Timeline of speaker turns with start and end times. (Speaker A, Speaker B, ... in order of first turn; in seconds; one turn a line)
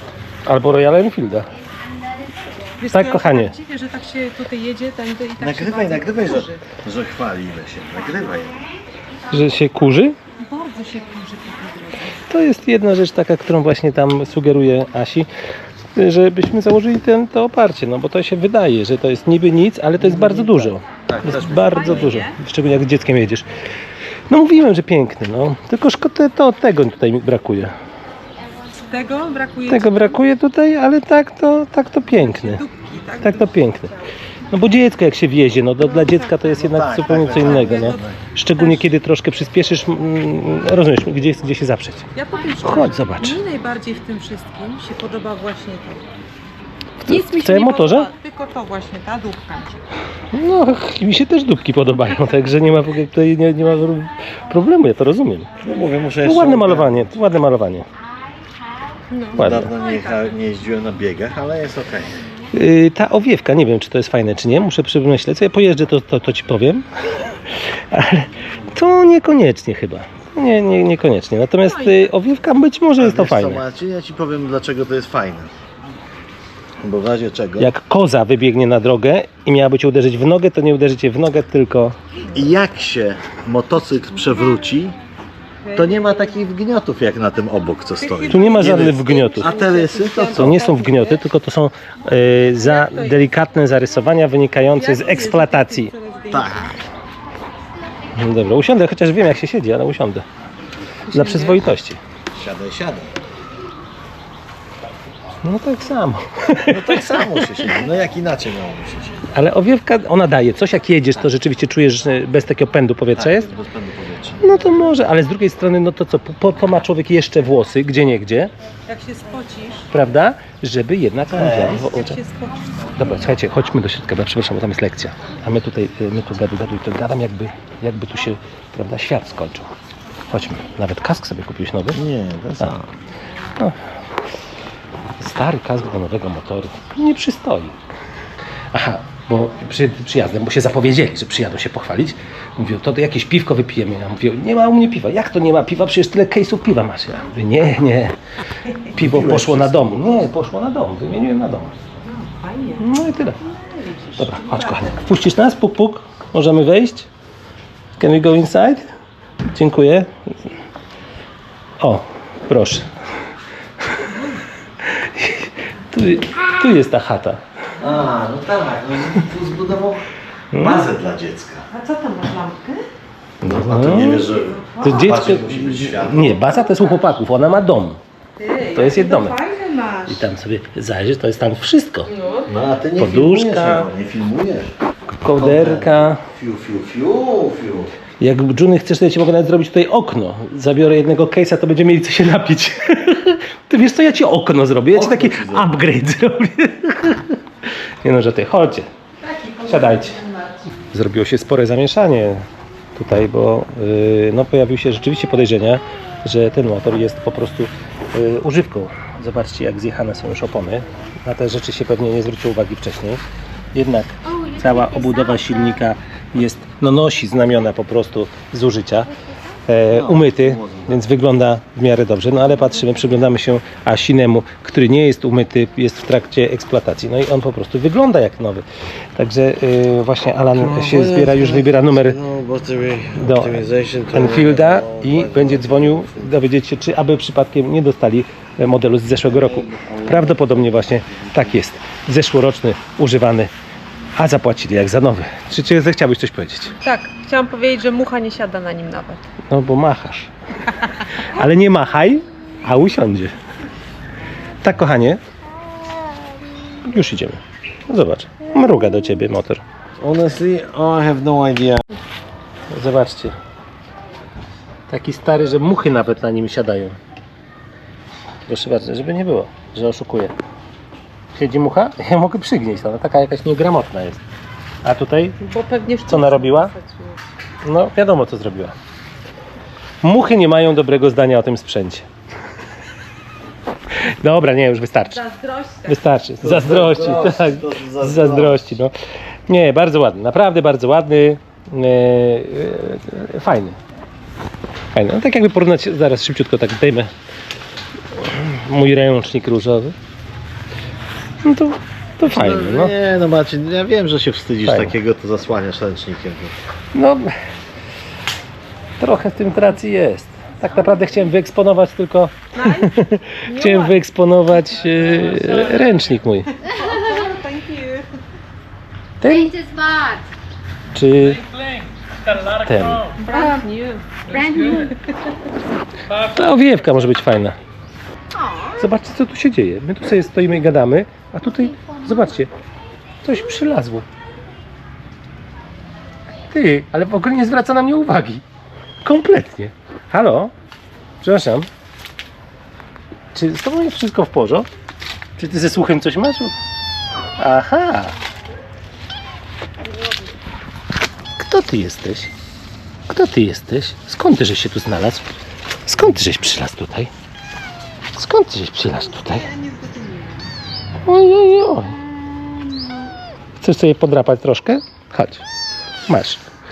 Speaker A: 0.5-1.5
Speaker B: 1.6-2.7
Speaker C: 2.8-6.6
Speaker A: 2.9-3.5
Speaker D: 5.4-8.6
Speaker A: 9.3-10.2
Speaker C: 10.4-12.2
Speaker A: 12.3-15.3
Speaker A: 15.9-23.5
Speaker D: 20.0-22.2
Speaker C: 21.4-22.4
Speaker A: 24.3-27.7
Speaker C: 28.8-30.2
Speaker A: 29.7-32.6
Speaker C: 32.2-34.0
Speaker A: 33.2-33.9
Speaker A: 34.5-42.1
Speaker C: 35.8-38.9
Speaker D: 36.6-38.2
Speaker C: 42.1-46.0
Speaker A: 42.6-43.4
Speaker A: 47.0-48.1
Speaker C: 47.1-49.8
Speaker A: 50.3-55.5
Speaker D: 55.6-57.1
Speaker A: 56.2-57.9
Speaker C: 59.1-59.4
Speaker A: 59.3-59.8
Speaker D: 59.4-62.2
Speaker A: 62.5-66.8
Speaker A: 67.7-73.6
Speaker C: 71.7-72.1
Speaker D: 73.0-75.5
Speaker D: 76.8-77.7
Speaker A: 77.6-82.0
Speaker D: 82.3-85.0
Speaker C: 85.7-86.3
Speaker D: 85.7-90.6
Speaker C: 88.0-91.2
Speaker A: 88.3-89.5
Speaker A: 90.3-95.9
Speaker C: 92.6-93.2
Speaker C: 94.8-96.7
Speaker D: 96.3-96.8
Speaker A: 98.1-100.2
Speaker C: 101.1-101.6
Speaker A: 101.1-102.0
Speaker D: 102.3-103.1
Speaker A: 105.4-107.8
Speaker D: 106.7-109.3
Speaker A: 109.3-113.5
Speaker D: 113.2-114.9
Speaker A: 114.4-118.5
Speaker C: 118.9-119.9
Speaker A: 119.9-122.2
Speaker D: 121.3-121.8
Speaker C: 121.7-123.2
Speaker A: 122.9-129.7
Speaker A: 130.3-132.0
Speaker D: 131.9-132.9
Speaker A: 135.2-137.9
Speaker A: 138.7-148.2
Speaker A: 148.8-151.8
Speaker D: 148.9-150.1
Speaker C: 152.0-155.0
Speaker A: 152.8-153.4
Speaker A: 154.2-157.1
Speaker A: 158.0-158.9
Speaker A: 159.5-160.3
Speaker A: 161.8-162.9
Speaker A: 163.9-164.2
Speaker A: 164.8-167.4
Speaker D: 167.8-171.7
Speaker A: 170.5-170.9
Speaker C: 171.7-172.9
Speaker A: 173.4-174.3
Speaker D: 173.4-176.4
Speaker C: 174.2-175.2
Speaker A: 174.8-178.0
Speaker C: 178.4-180.2
Speaker A: 178.7-179.4
Speaker A: 180.1-182.1
Speaker C: 182.1-182.5
Speaker D: 182.5-184.7
Speaker A: 183.0-183.9
Speaker A: 185.2-186.2
Speaker D: 185.3-187.9
Speaker A: 188.2-197.4
Speaker D: 194.9-195.7
Speaker A: 198.0-198.9
Speaker C: 199.2-200.7
Speaker A: 199.7-200.2
Speaker A: 200.9-202.4
Speaker A: 203.0-213.2
Speaker A: 213.7-219.1
Speaker B: 214.2-215.8
Speaker A: 219.7-228.7
Speaker D: 219.9-221.1
Speaker A: 229.2-232.2
Speaker D: 230.5-236.3
Speaker A: 233.2-243.5
Speaker D: 239.2-241.6
Speaker A: 244.2-246.8
Speaker C: 246.8-249.3
Speaker A: 249.5-250.3
Speaker A: 251.2-253.3
Speaker A: 254.6-255.2
Speaker A: 256.8-259.6
Speaker D: 260.0-261.9
Speaker A: 262.7-263.4
Speaker A: 264.9-267.0
Speaker A: 268.5-270.3
Speaker A: 271.4-274.2
Speaker A: 274.8-275.4
Speaker C: 275.4-277.2
Speaker A: 276.1-276.7
Speaker A: 277.6-278.8
Speaker A: 280.0-282.1
Speaker A: 283.9-285.2
Speaker C: 285.1-286.0
Speaker A: 285.9-288.9
Speaker D: 286.4-288.6
Speaker A: 289.5-293.8
Speaker A: 294.9-297.1
Speaker A: 298.1-300.0
Speaker A: 301.4-302.9
Speaker D: 302.2-306.6
Speaker A: 304.6-304.9
Speaker A: 306.9-307.4
Speaker A: 309.0-316.5
Speaker B: 310.7-311.1
Speaker C: 312.6-314.0
Speaker C: 316.6-318.1
Speaker B: 316.7-317.3
Speaker A: 319.2-319.5
Speaker B: 319.2-320.3
Speaker A: 320.9-321.8
Speaker A: 322.3-323.2
Speaker C: 323.2-325.0
Speaker B: 323.3-323.6
Speaker B: 324.3-325.0
Speaker A: 326.1-327.6
Speaker B: 328.3-328.9
Speaker A: 328.8-332.5
Speaker B: 331.5-332.4
Speaker A: 333.2-334.1
Speaker A: 336.5-338.4
Speaker A: 339.0-340.5
Speaker A: 341.2-341.7
Speaker A: 343.3-344.7
Speaker A: 345.4-346.5
Speaker A: 347.4-348.1
Speaker A: 351.4-352.3
Speaker A: 353.1-355.3
Speaker A: 355.9-357.1
Speaker A: 358.2-359.5
Speaker C: 359.2-360.5
Speaker A: 361.1-362.0
Speaker A: 363.6-365.4
Speaker A: 366.1-366.4